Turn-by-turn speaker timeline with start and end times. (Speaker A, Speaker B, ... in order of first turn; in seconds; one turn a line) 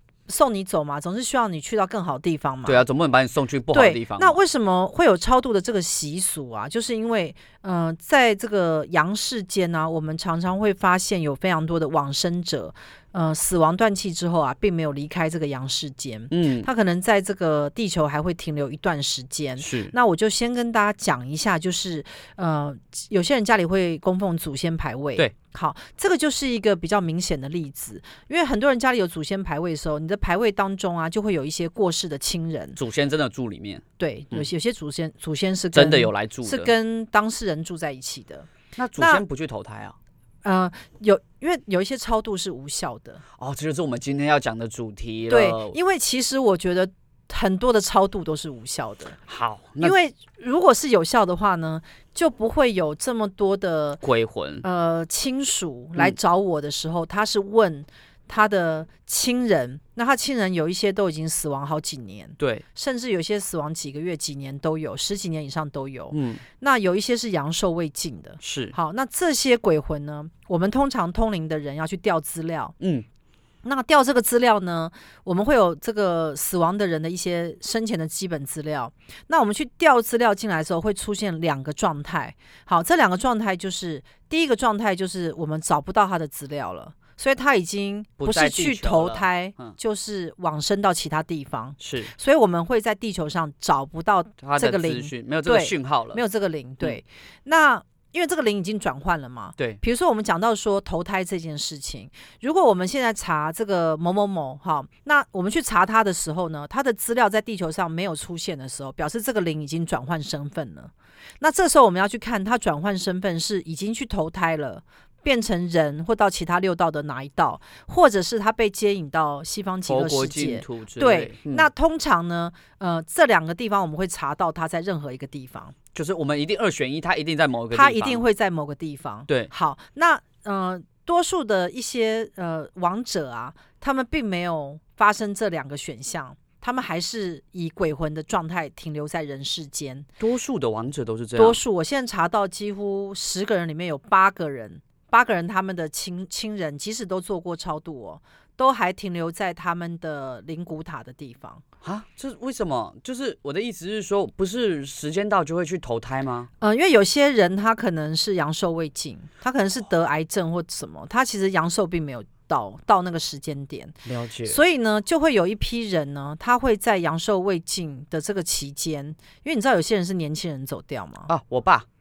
Speaker A: 0.3-2.8
Speaker B: 2.6-4.4
Speaker A: 3.7-32.8
Speaker B: 16.3-16.7
Speaker B: 19.6-19.9
Speaker B: 32.8-34.5
Speaker A: 34.0-39.2
Speaker B: 35.7-36.7
Speaker B: 38.8-40.0
Speaker A: 40.4-43.2
Speaker B: 43.4-45.8
Speaker A: 45.3-49.2
Speaker B: 49.3-49.9
Speaker A: 49.8-54.0
Speaker B: 54.0-54.6
Speaker A: 54.6-72.7
Speaker B: 62.4-62.6
Speaker B: 66.1-66.4
Speaker B: 68.4-68.7
Speaker B: 72.8-73.0
Speaker A: 73.6-125.7
Speaker B: 88.2-89.7
Speaker B: 91.8-92.1
Speaker B: 94.4-96.2
Speaker B: 119.8-121.7
Speaker B: 125.9-128.2
Speaker A: 127.7-140.1
Speaker B: 140.2-141.6
Speaker A: 141.3-151.6
Speaker B: 151.8-156.5
Speaker A: 156.6-163.9
Speaker B: 164.0-164.6
Speaker A: 164.5-171.3
Speaker B: 171.3-171.8